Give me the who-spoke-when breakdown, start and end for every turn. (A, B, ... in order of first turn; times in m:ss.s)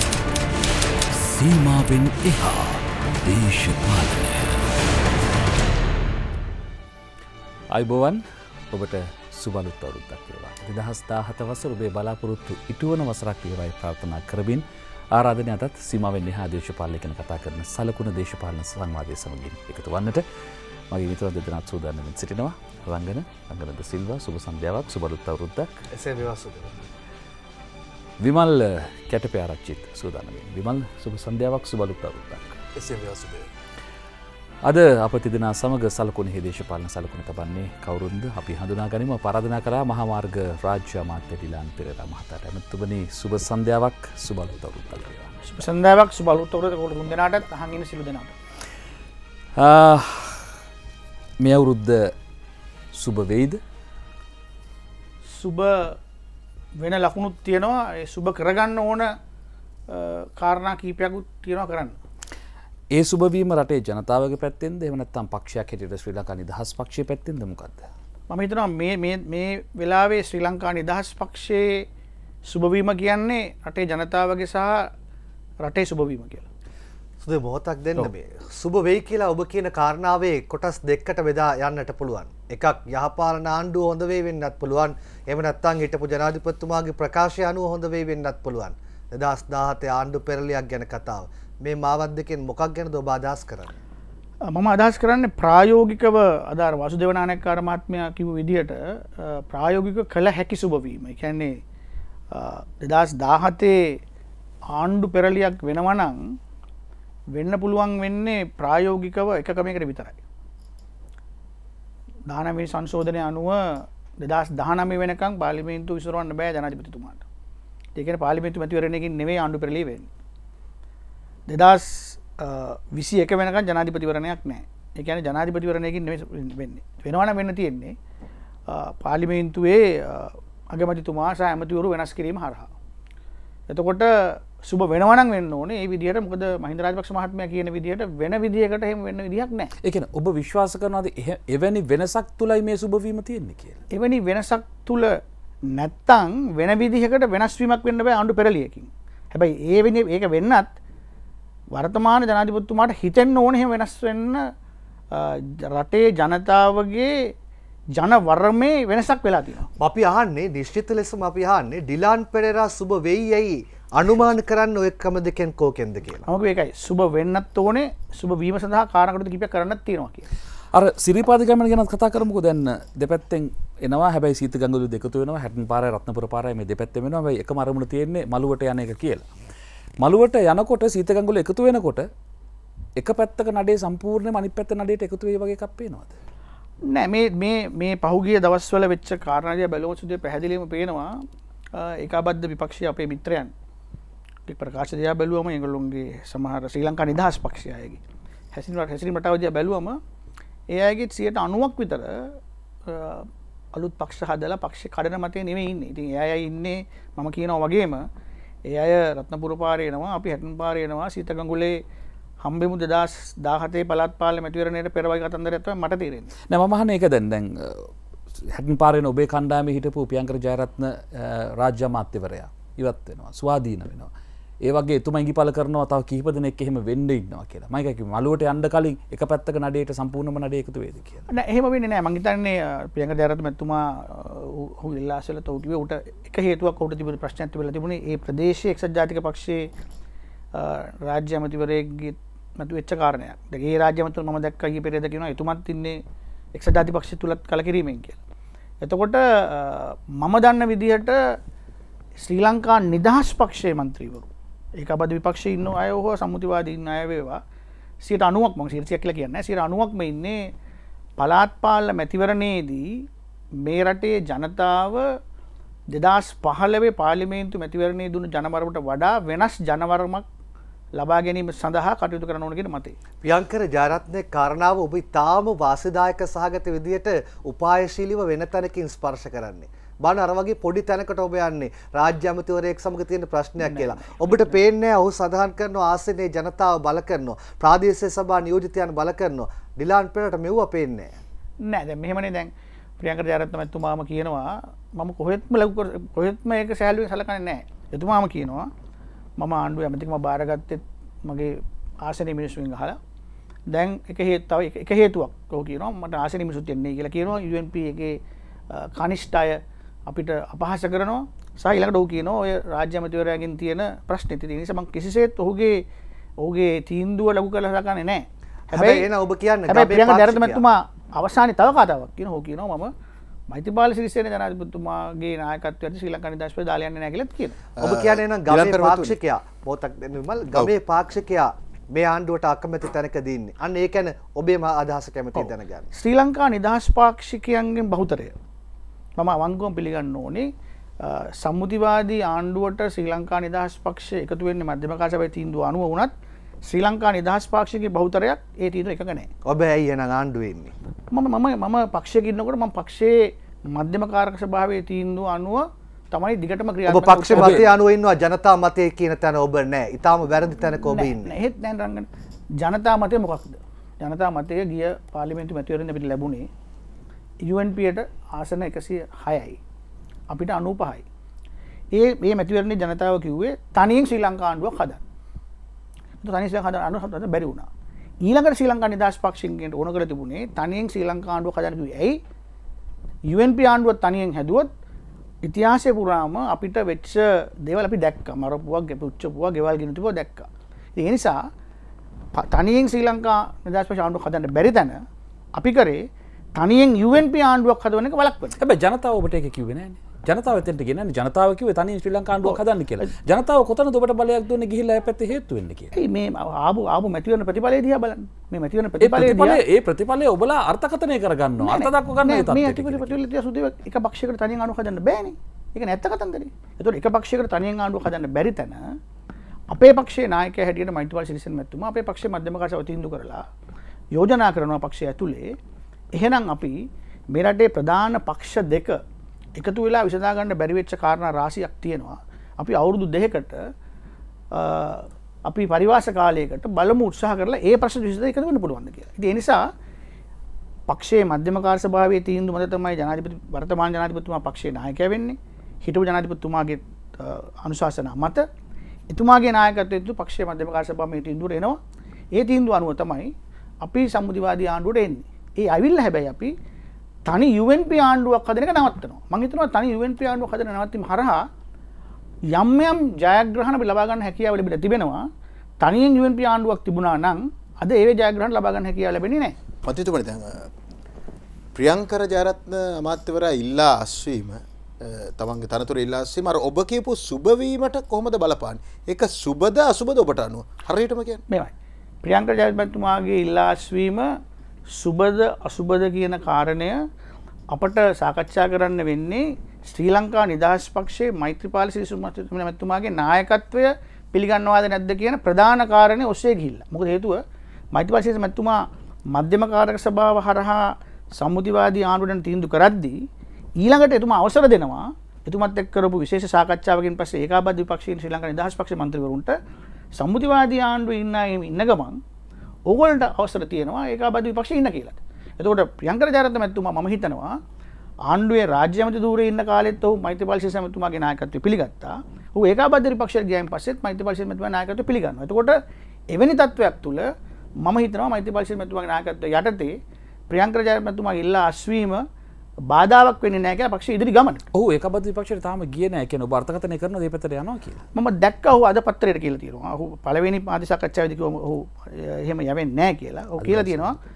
0:01.1-0:04.6 A
0:07.7-0:20.2 A
0:20.9-0:25.7 A
0:25.9-0:26.7 B
0:28.2-0:32.6 A
0:32.8-0:33.5 C
0:34.6-0:45.3 A
0:45.5-0:48.3 D
0:49.6-0:50.5 A
0:51.4-0:52.1 A
0:52.9-0:53.6 A
0:55.3-0:56.0 D
0:56.8-0:59.1 D
0:59.9-1:01.9 D
1:02.9-1:07.9 A
1:08.3-1:11.7 D
1:12.4-1:14.9 D
1:15.6-1:16.4 D
1:17.2-1:33.8 B
1:34.5-1:41.6 D
1:42.3-1:44.0 D
1:44.7-1:46.2 D
1:47.3-1:50.2 D
1:52.3-1:57.2 D
1:58.0-2:00.1 D
2:01.5-2:07.9 D
2:08.7-2:12.7 D
2:13.7-2:19.7 D
2:19.8-2:23.8 A
2:23.9-2:25.1 D
2:25.7-2:30.7 D
2:31.7-2:34.4 D
2:35.1-2:37.1 D
2:38.0-2:39.7 D
2:39.8-2:46.2 B
2:46.3-2:50.3 D
2:50.7-2:59.3 A
3:00.0-3:02.1 A
3:03.0-3:06.1 A
3:06.9-3:11.1 D
3:11.8-3:13.5 D
3:14.5-3:18.0 D
3:18.5-3:20.0 D
3:20.7-3:22.1 D
3:22.9-3:28.0 D
3:28.7-3:31.8 D
3:32.4-3:36.3 D
3:36.5-3:37.9 A
3:38.5-3:44.1 A
3:44.6-3:51.2 A
3:51.3-3:59.7 D
4:00.5-4:06.0 D
4:06.5-4:08.2 D
4:08.8-4:11.2 D
4:12.2-4:17.4 D
4:18.0-4:20.4 D
4:21.2-4:23.0 D
4:23.6-4:25.0 D
4:25.9-4:30.2 D
4:31.0-4:33.0 D
4:33.2-4:51.1 B
4:43.6-4:44.6 D
4:51.6-4:58.7 D
4:59.4-5:03.0 D
5:03.7-5:08.2 D
5:08.7-5:15.8 D
5:16.4-5:19.1 D
5:18.7-5:20.6 B
5:19.7-5:22.9 D
5:23.5-5:27.6 D
5:27.8-5:29.2 C
5:27.8-5:35.9 B
5:35.9-5:38.3 D
5:39.2-5:40.5 D
5:41.0-5:46.1 D
5:46.6-5:49.3 D
5:49.4-5:50.7 B
5:51.1-5:57.7 D
5:56.8-6:01.3 B
5:57.3-5:57.6 A
6:00.8-6:02.1 D
6:02.6-6:06.5 D
6:07.4-6:09.6 D
6:10.3-6:11.0 D
6:11.9-6:15.0 D
6:16.2-6:17.7 D
6:18.2-6:22.2 D
6:23.3-6:24.7 D
6:25.4-6:31.4 D
6:32.3-6:35.0 D
6:35.5-6:36.0 D
6:36.6-6:38.6 D
6:38.6-6:45.9 A
6:42.4-6:43.1 D
6:45.9-6:49.6 D
6:49.0-6:53.2 A
6:51.6-6:58.8 D
6:59.7-7:03.4 D
7:04.1-7:05.5 D
7:06.1-7:09.0 D
7:09.6-7:13.6 D
7:14.5-7:19.6 D
7:20.9-7:28.4 D
7:29.1-7:31.8 D
7:32.3-7:36.5 D
7:37.2-7:41.5 D
7:42.5-7:45.2 D
7:45.8-7:49.5 D
7:49.8-7:50.7 C
7:51.7-8:01.4 C
8:01.5-8:04.2 D
8:04.9-8:07.0 D
8:07.7-8:17.4 D
8:17.9-8:18.8 D
8:19.3-8:23.2 D
8:23.8-8:29.5 D
8:30.2-8:32.2 D
8:32.9-8:37.6 D
8:38.3-8:45.8 D
8:46.3-8:47.2 D
8:47.8-8:50.0 D
8:50.5-8:52.2 D
8:52.8-8:54.6 D
8:54.7-8:58.0 A
8:58.1-9:04.2 D
9:03.6-9:04.2 A